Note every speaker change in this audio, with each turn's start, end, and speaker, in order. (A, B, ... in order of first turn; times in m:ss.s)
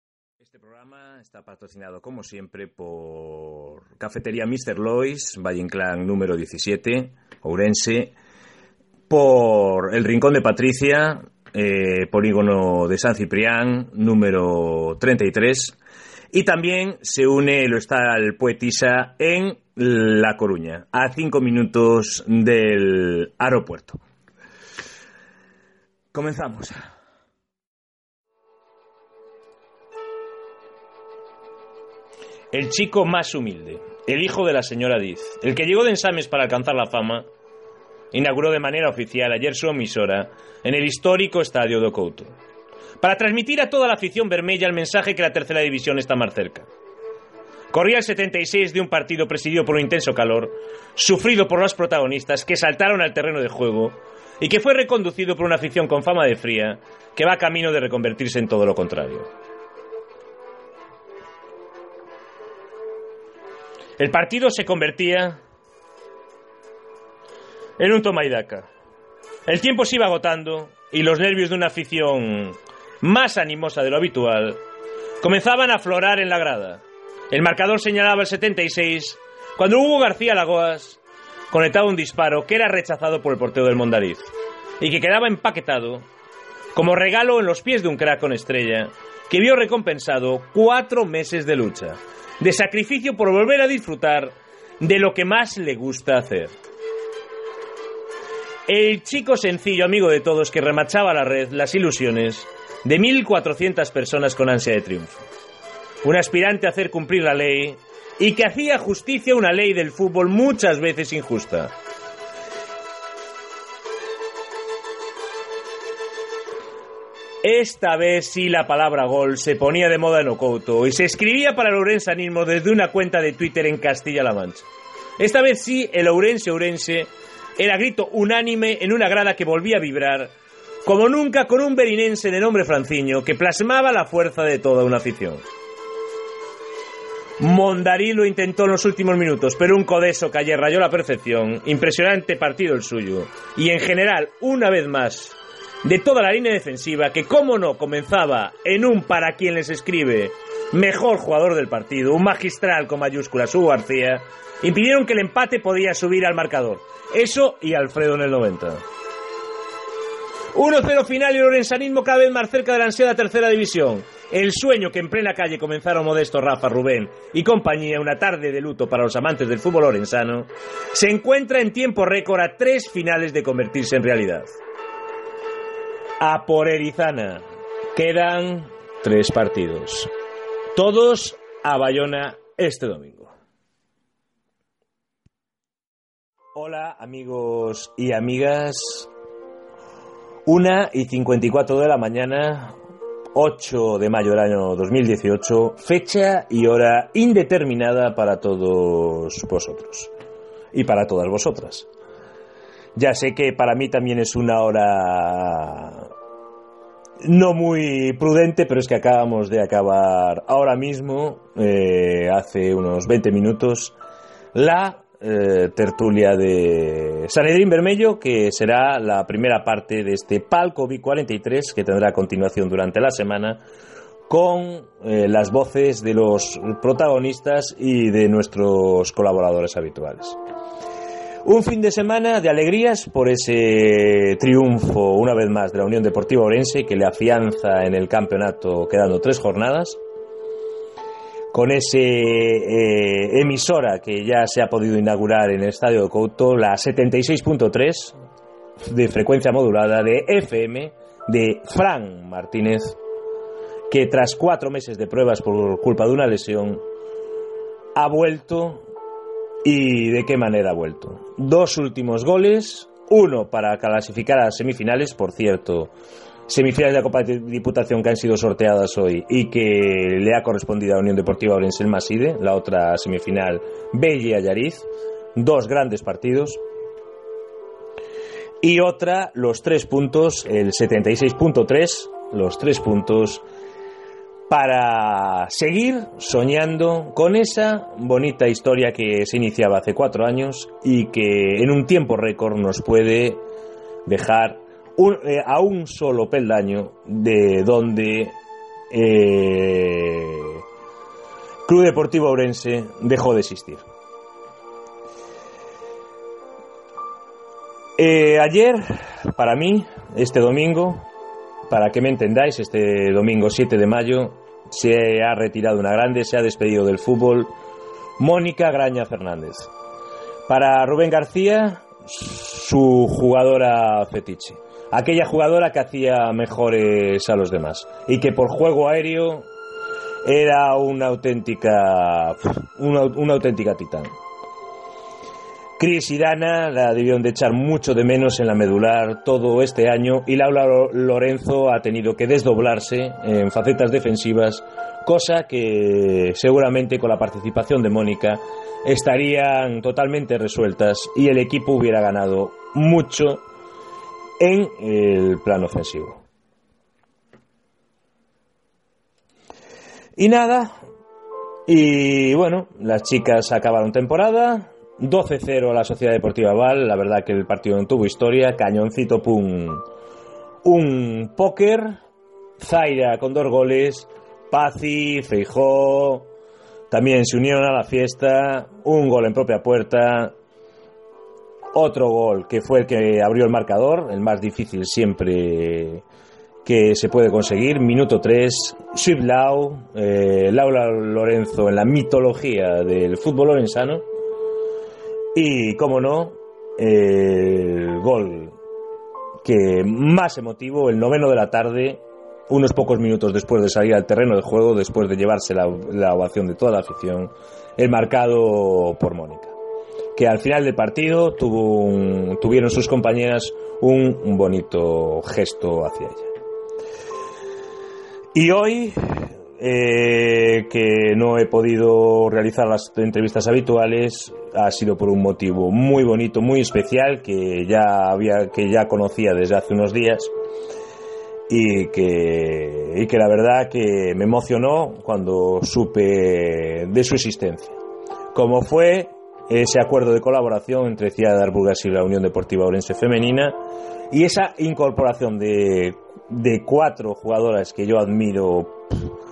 0:00.4-0:08.1 A
0:09.1-0:15.8 A
0:16.3-0:24.0 A
0:26.1-0:26.8 A
0:32.5-0:37.2 A
0:38.1-0:42.3 A
0:43.0-0:46.7 A
0:47.7-0:59.3 A
1:04.0-1:05.4 A
1:07.8-1:08.7 A
1:09.4-1:14.6 A
1:15.2-1:24.3 A
1:24.8-1:26.0 A
1:26.7-1:36.5 A
1:38.7-1:45.2 A
1:46.0-1:51.7 A
1:57.4-2:04.6 A
2:05.2-2:10.3 A
2:10.8-2:15.4 A
2:17.4-2:38.8 A
2:40.5-2:54.5 A
2:56.2-2:57.4 A
2:57.9-3:00.1 A
3:00.7-3:03.3 A
3:06.5-3:09.1 A
3:10.4-3:12.7 A
3:13.3-3:20.1 A
3:20.7-3:21.9 A
3:22.9-3:26.1 A
3:27.2-3:33.9 A
3:34.5-3:43.6 A
3:44.3-3:50.4 A
3:51.4-4:00.0 A
4:01.5-4:08.2 A
4:08.8-4:13.0 A
4:13.9-4:16.8 A
4:17.9-4:18.8 A
4:19.6-4:25.9 A
4:26.5-4:36.6 A
4:38.6-4:43.4 A
4:44.5-4:53.4 A
4:54.0-4:58.3 A
4:58.9-5:00.6 A
5:01.6-5:03.8 A
5:08.0-5:11.0 A
5:11.7-5:17.5 A
5:18.2-5:19.7 A
5:20.5-5:29.4 A
5:30.2-5:34.1 A
5:35.8-5:53.4 A
5:54.4-5:56.2 A
6:00.2-6:00.7 A
6:01.7-6:09.8 A
6:10.6-6:11.9 A
6:12.6-6:16.3 A
6:16.9-6:20.3 A
6:21.7-6:26.0 A
6:26.6-6:34.0 A
6:35.3-6:38.5 A
6:39.4-6:49.5 A
6:50.1-6:56.3 A
6:58.3-7:10.3 A
7:11.5-7:17.8 A
7:18.3-7:23.6 A
7:24.1-7:28.8 A